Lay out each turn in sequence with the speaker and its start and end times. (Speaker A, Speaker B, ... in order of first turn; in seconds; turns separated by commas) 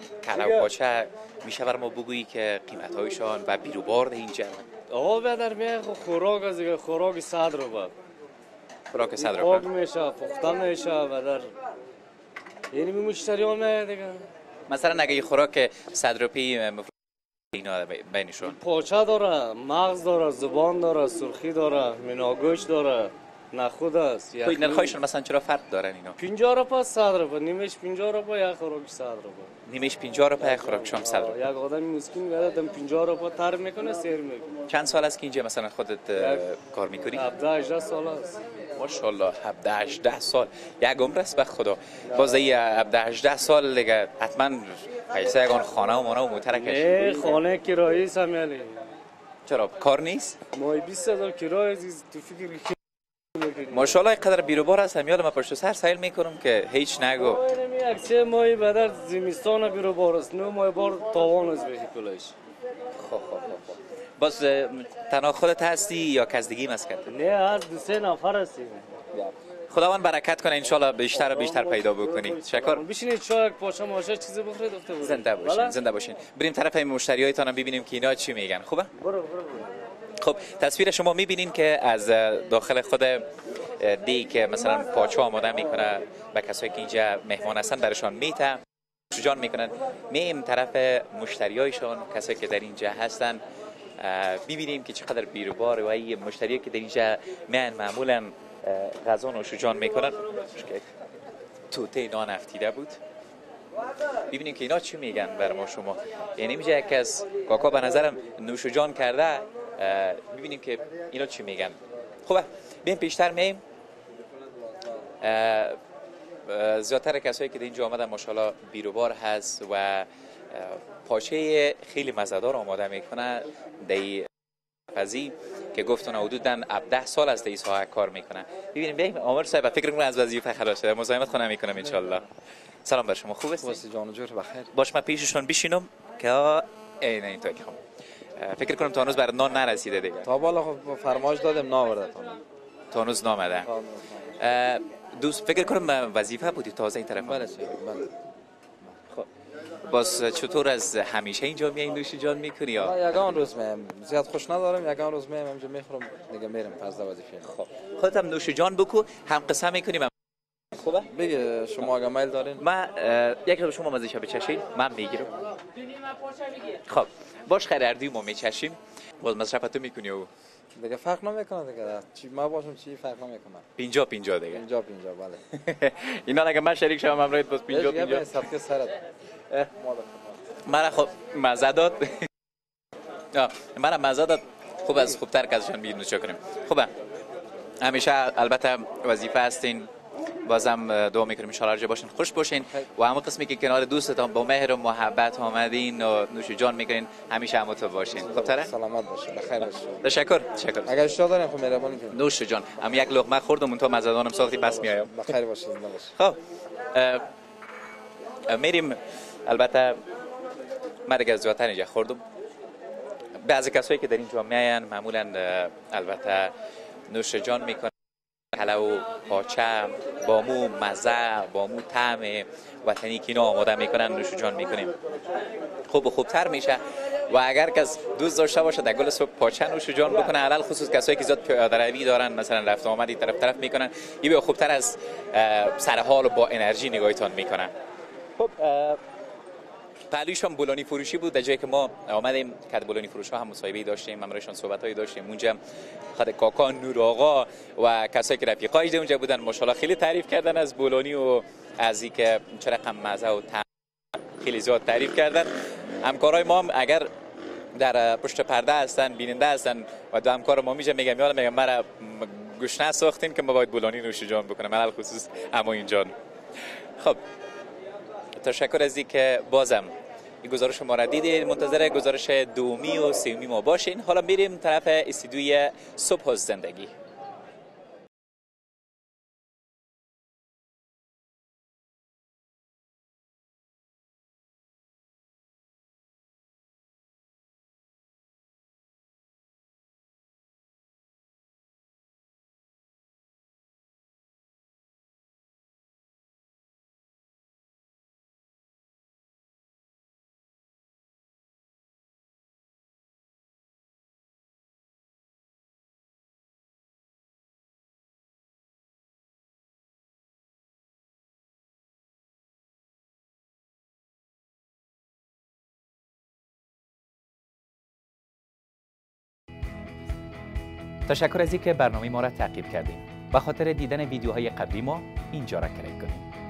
Speaker A: 0.2-4.6, Speaker B: 4.9-7.9, Speaker A: 8.9-9.7, Speaker B: 9.2-11.5, Speaker B: 12.7-14.2, Speaker A: 14.7-16.9, Speaker A: 17.5-18.6, Speaker B: 18.5-24.9, Speaker A: 24.4-26.2, Speaker B: 26.2-29.5, Speaker A: 29.6-31.4, Speaker B: 30.7-34.6, Speaker A: 34.7-37.3, Speaker B: 36.2-36.5, Speaker B: 37.1-38.4, Speaker A: 38.7-47.2, Speaker B: 46.5-48.8, Speaker A: 49.4-50.4, Speaker B: 50.5-52.8, Speaker B: 53.3-53.9, Speaker A: 53.7-57.4, Speaker B: 57.2-62.3, Speaker A: 63.0-67.2, Speaker B: 67.1-68.9, Speaker A: 69.1-72.8, Speaker B: 71.1-75.8, Speaker A: 75.0-78.9, Speaker B: 79.0-79.7, Speaker A: 80.2-93.4, Speaker A: 94.0-100.9, Speaker A: 101.7-103.0, Speaker A: 104.3-113.6, Speaker A: 115.2-115.8, Speaker A: 116.4-124.3, Speaker A: 124.9-132.3, Speaker A: 132.8-133.8, Speaker C: 133.6-134.7, Speaker A: 134.7-137.8, Speaker A: 138.4-140.3, Speaker C: 140.2-142.4, Speaker A: 142.9-143.7, Speaker C: 143.6-144.3, Speaker A: 144.4-147.6, Speaker C: 147.2-148.1, Speaker A: 149.8-153.0, Speaker C: 152.8-157.5, Speaker A: 157.4-160.1, Speaker A: 160.8-161.1, Speaker C: 161.1-162.6, Speaker A: 162.6-165.3, Speaker A: 166.8-170.3, Speaker C: 170.8-173.6, Speaker A: 173.8-174.6, Speaker C: 174.5-175.4, Speaker A: 175.5-178.5, Speaker C: 177.7-179.0, Speaker C: 179.7-180.4, Speaker A: 180.6-182.3, Speaker A: 183.3-186.9, Speaker A: 187.8-189.9, Speaker A: 190.4-198.7, Speaker C: 198.1-200.2, Speaker A: 200.0-200.9, Speaker C: 200.8-202.2, Speaker A: 202.1-205.2, Speaker C: 204.8-206.1, Speaker A: 206.9-207.2, Speaker A: 208.5-210.0, Speaker A: 211.1-212.2, Speaker A: 213.4-216.5, Speaker A: 217.1-217.9, Speaker A: 218.5-224.9, Speaker A: 225.9-237.7, Speaker A: 238.4-239.0, Speaker A: 240.1-245.6, Speaker A: 246.1-253.7, Speaker A: 254.3-257.1, Speaker A: 257.8-266.1, Speaker A: 268.4-269.9, Speaker A: 270.4-276.9, Speaker A: 321.1-326.2